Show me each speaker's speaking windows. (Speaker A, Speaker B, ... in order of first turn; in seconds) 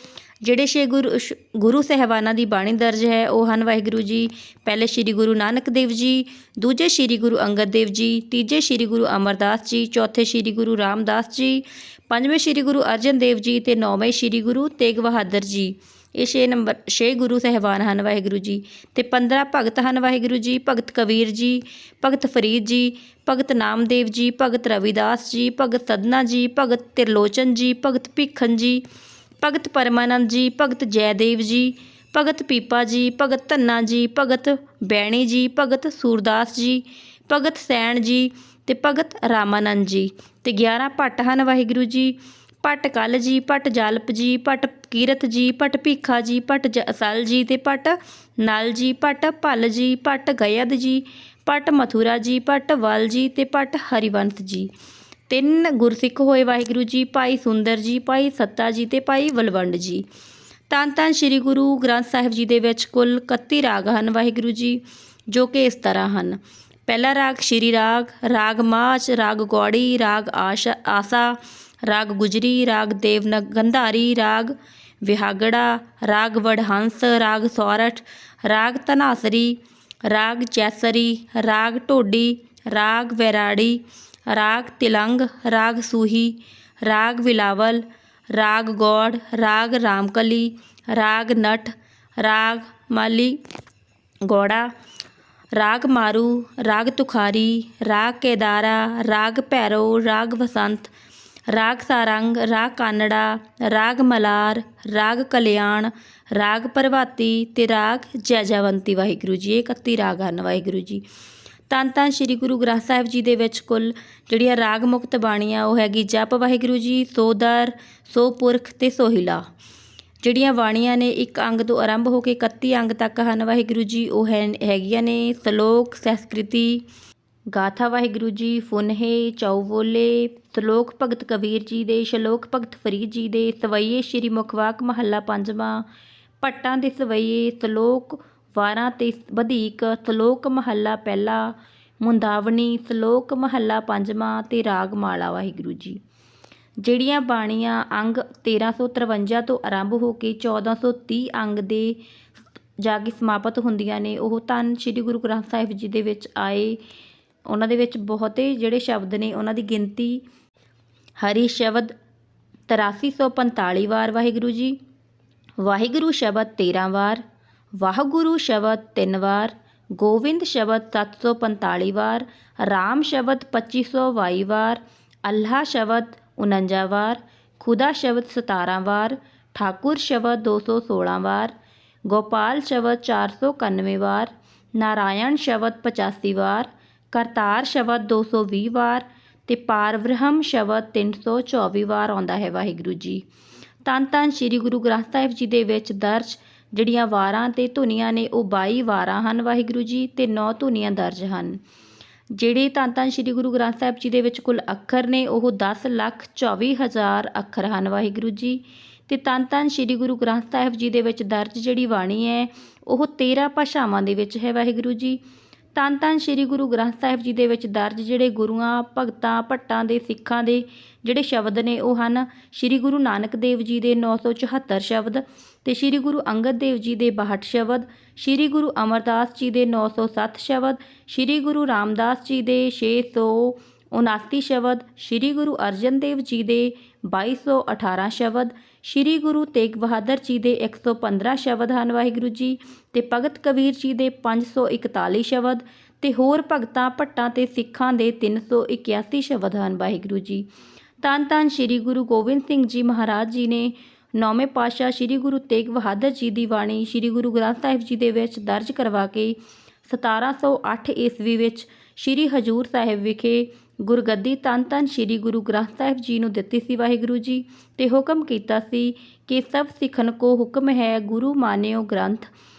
Speaker A: 0.4-28.8, 29.4-54.7, 55.3-60.0, 60.7-93.4, 94.2-94.7, 95.5-100.9, 101.5-111.0, 111.7-119.4, 120.2-126.8, 127.5-135.8, 136.4-146.0, 146.8-152.0, 152.8-156.8, 157.5-160.2, 161.2-161.9, 162.7-164.8, 165.6-167.2, 167.8-181.5, 182.1-193.2, 193.8-201.6, 202.3-215.2, 215.7-250.5, 251.0-272.3